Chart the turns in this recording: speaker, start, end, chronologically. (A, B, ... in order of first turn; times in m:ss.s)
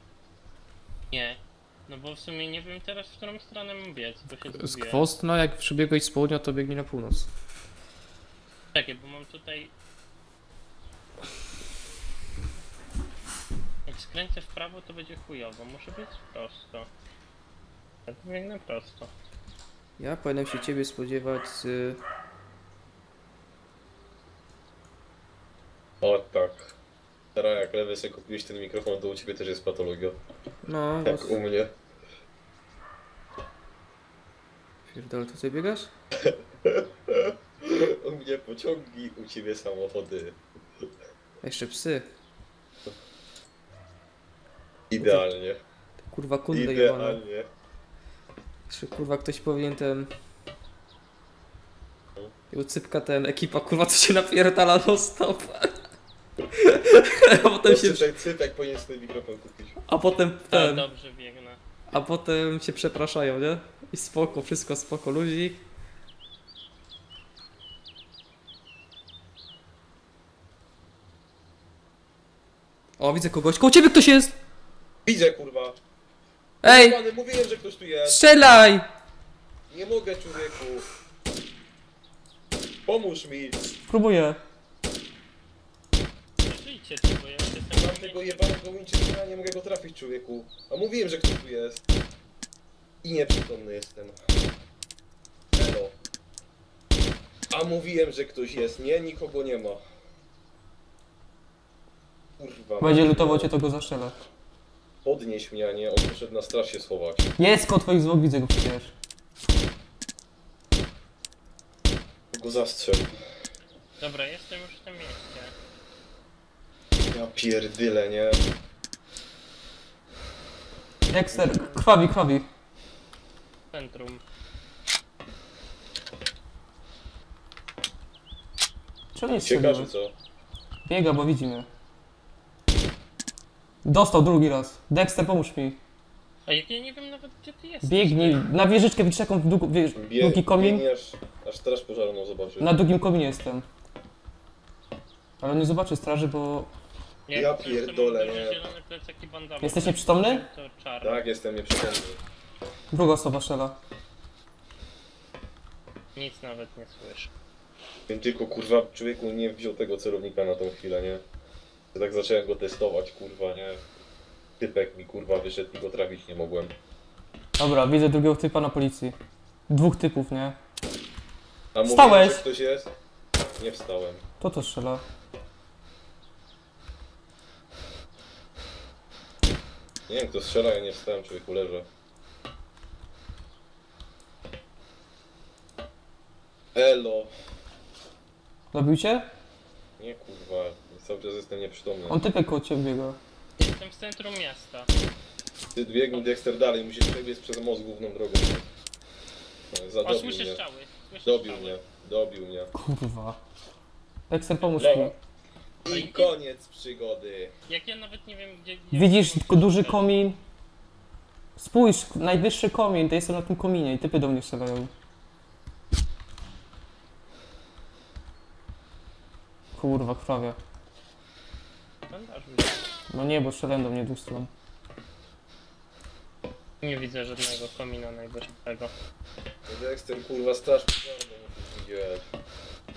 0:01.1-0:05.1 A
0:04.5-0:07.3 B
0:08.7-0:09.7 A
0:13.8-0:16.9 A
0:18.1-0:19.1 A
0:20.0-0:22.0 B
0:26.0-0:26.8 C
0:27.3-0:30.2 C
0:30.6-0:31.4 B
0:31.0-0:31.7 C
0:34.9-0:35.9 B
0:36.2-0:40.4 C
0:41.4-0:42.1 B
0:44.9-0:45.6 C
0:45.0-0:45.2 B
0:46.0-0:47.2 B
0:46.5-0:47.5 C
0:48.7-0:50.1 B
0:52.5-0:55.8 B
0:56.6-0:58.1 B
0:57.6-0:59.8 C
0:59.8-1:00.8 B
1:00.5-1:01.6 A
1:01.9-1:05.6 B
1:13.0-1:14.3 B
1:15.0-1:15.8 C
1:16.6-1:17.0 B
1:16.6-1:18.2 C
1:18.0-1:18.9 B
1:19.7-1:20.8 C
1:22.8-1:23.6 C
1:23.8-1:24.4 B
1:26.4-1:28.4 A
1:27.7-1:31.8 C
1:33.0-1:34.2 C
1:35.5-1:36.0 C
1:37.5-1:39.8 C
1:42.4-1:43.5 C
1:42.8-1:44.2 B
1:45.0-1:47.3 C
1:47.4-1:48.9 B
1:52.3-1:53.1 C
1:54.0-1:55.5 A
1:57.1-1:58.4 C
2:01.1-2:02.4 B
2:01.3-2:01.8 C
2:03.7-2:04.2 A
2:09.1-2:09.9 B
2:09.3-2:10.1 C
2:10.8-2:11.7 B
2:13.8-2:15.8 B
2:16.4-2:18.4 A
2:17.8-2:20.8 B
2:19.9-2:22.8 C
2:22.6-2:23.6 B
2:25.4-2:26.7 B
2:27.3-2:31.3 A
2:27.3-2:28.6 C
2:29.6-2:30.4 B
2:31.0-2:32.2 C
2:32.9-2:33.8 B
2:36.1-2:37.3 A
2:38.1-2:41.2 C
2:41.9-2:43.8 C
2:44.6-2:46.7 C
2:47.6-2:49.2 B
2:49.7-2:50.6 B
2:51.7-2:52.9 C
2:51.8-2:52.4 B
2:53.6-2:54.2 C
2:54.4-2:55.0 B
3:00.1-3:01.9 C
3:06.7-3:07.3 C
3:08.7-3:09.3 B
3:10.0-3:12.2 C
3:12.1-3:13.2 B
3:13.6-3:14.9 A
3:15.7-3:18.7 C
3:19.7-3:20.6 C
3:20.0-3:21.8 A
3:21.2-3:22.7 C
3:22.7-3:23.4 B
3:24.3-3:25.1 B
3:24.8-3:25.2 C
3:25.8-3:27.5 C
3:25.9-3:26.3 A
3:27.7-3:30.2 A
3:28.9-3:30.4 B
3:31.6-3:34.9 B
3:39.7-3:40.6 B
3:42.1-3:42.8 A
3:43.1-3:44.5 B
3:46.8-3:48.9 A
3:49.7-3:52.3 C